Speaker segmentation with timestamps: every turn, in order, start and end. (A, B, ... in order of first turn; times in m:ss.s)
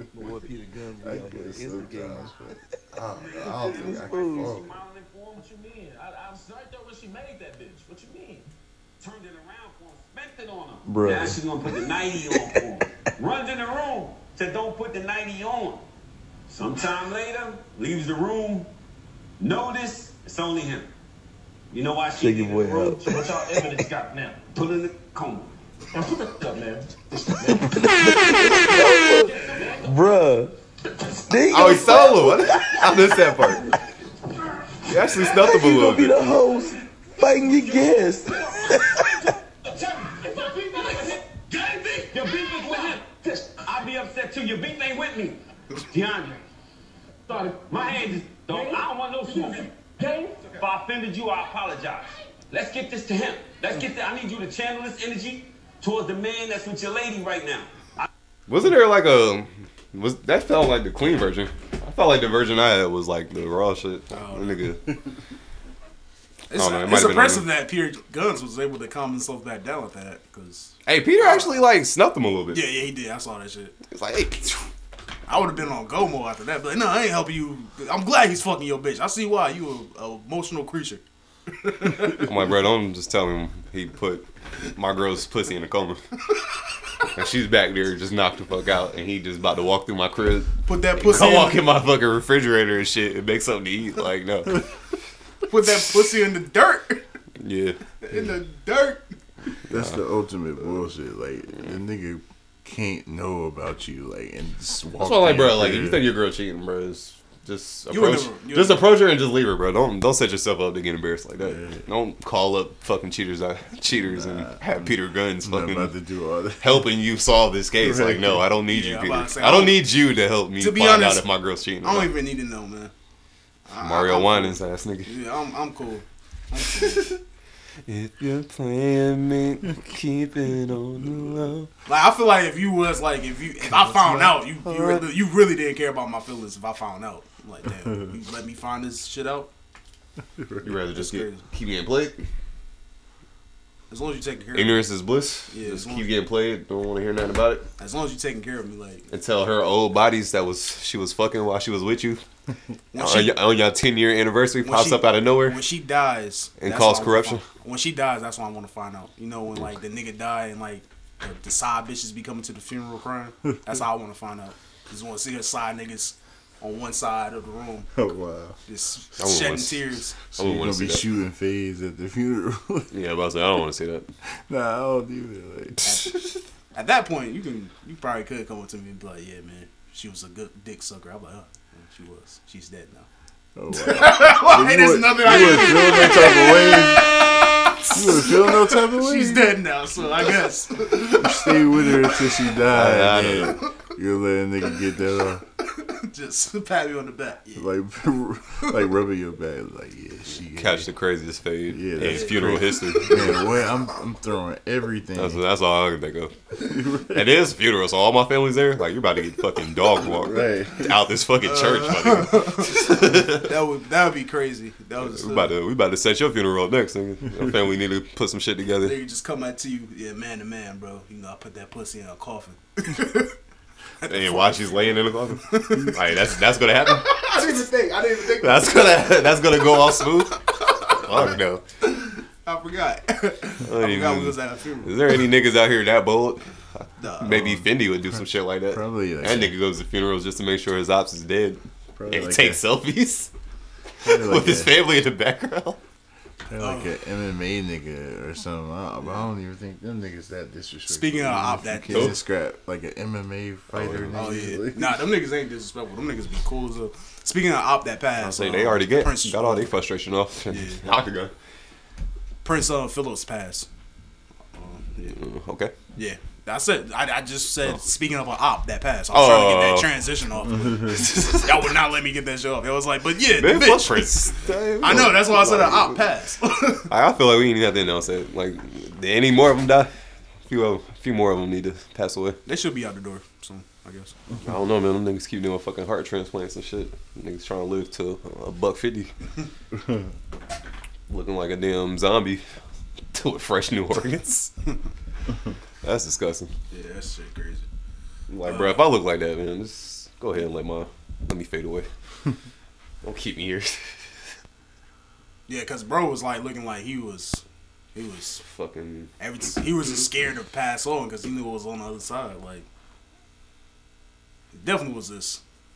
0:00.1-0:02.2 A
0:01.0-0:04.7 B
0:03.2-0:15.8 C
0:03.6-0:04.6 A
0:10.9-0:11.8 A
0:16.5-0:18.7 C
0:19.4-0:20.9 C
0:21.7-0:30.0 C
0:22.2-0:23.9 A
0:27.3-0:30.6 A
0:31.1-0:33.8 A
0:31.5-0:33.6 D
0:34.9-0:36.2 D
0:35.0-0:39.4 A
0:37.4-0:45.4 C
0:45.9-0:46.4 C
0:47.3-0:58.1 C
0:58.5-1:04.8 D
1:04.1-1:04.7 E
1:06.5-1:11.6 E
1:06.5-1:07.4 D
1:10.9-1:12.6 D
1:12.5-1:13.7 E
1:13.9-1:14.7 D
1:15.3-1:22.2 E
1:22.1-1:26.0 D
1:27.1-1:34.6 D
1:30.6-1:31.7 E
1:35.5-1:37.0 E
1:37.4-1:37.8 D
1:38.0-1:39.1 E
1:39.7-1:46.1 B
1:39.7-1:40.0 D
1:44.9-1:55.9 D
1:47.9-1:48.8 E
1:51.4-1:51.8 B
1:53.9-1:56.9 B
1:56.6-2:02.1 D
1:57.8-1:58.4 B
1:58.7-1:59.8 E
2:00.6-2:01.2 E
2:01.8-2:02.9 E
2:03.7-2:07.2 E
2:03.8-2:05.2 D
2:06.7-2:07.2 D
2:07.8-2:11.7 D
2:11.9-2:19.5 E
2:13.8-2:14.1 B
2:14.6-2:15.0 D
2:20.4-2:20.8 B
2:20.6-2:22.2 D
2:20.9-2:21.4 E
2:23.9-2:24.8 E
2:24.5-2:27.6 D
2:25.5-2:26.1 E
2:27.8-2:29.0 E
2:29.1-2:32.2 D
2:32.9-2:33.4 E
2:32.9-2:35.6 D
2:34.6-2:47.9 E
2:36.6-2:37.4 D
2:47.9-2:48.6 B
2:48.7-2:50.2 E
2:49.2-2:51.0 D
2:50.4-2:52.9 B
2:52.9-2:54.1 D
2:54.5-2:55.8 B
2:55.8-2:56.4 D
2:55.8-2:56.1 E
2:56.7-3:03.1 E
3:03.5-3:07.1 B
3:03.7-3:12.4 E
3:07.9-3:09.6 B
3:10.9-3:15.4 B
3:12.7-3:13.6 D
3:15.8-3:17.7 E
3:17.5-3:20.9 B
3:20.6-3:23.5 D
3:21.7-3:25.4 B
3:22.0-3:23.3 E
3:25.2-3:33.5 D
3:26.6-3:27.2 B
3:30.0-3:30.9 B
3:31.4-3:35.5 E
3:35.0-3:39.0 D
3:38.8-3:43.3 E
3:44.0-3:44.9 E
3:44.0-3:47.7 D
3:45.5-3:46.1 E
3:46.9-3:50.0 E
3:48.2-3:51.6 D
3:50.9-3:51.3 E
3:51.9-3:55.2 E
3:53.6-4:03.3 D
3:57.0-3:57.6 E
3:58.1-3:59.5 B
4:02.0-4:02.6 B
4:04.0-4:04.7 B
4:04.0-4:05.8 D
4:06.4-4:15.0 B
4:06.6-4:06.9 E
4:10.9-4:12.1 E
4:11.9-4:12.2 D
4:13.7-4:14.5 D
4:14.1-4:19.7 E
4:18.2-4:21.3 D
4:20.5-4:20.8 E
4:22.4-4:23.7 E
4:24.5-4:25.2 E
4:25.1-4:25.7 D
4:26.0-4:36.9 E
4:29.1-4:29.9 D
4:30.5-4:31.0 B
4:30.9-4:31.7 D
4:33.3-4:36.1 D
4:36.9-4:42.4 D
4:42.4-4:44.2 E
4:44.3-4:49.1 D
4:51.1-4:52.6 D
4:53.1-4:54.5 D
4:55.8-4:56.5 D
4:56.7-4:57.7 E
4:58.3-5:01.9 D
4:58.4-4:58.8 E
5:03.0-5:04.3 D
5:05.5-5:07.4 E
5:07.9-5:08.4 E
5:08.4-5:09.1 D
5:09.2-5:12.6 E
5:14.5-5:15.4 E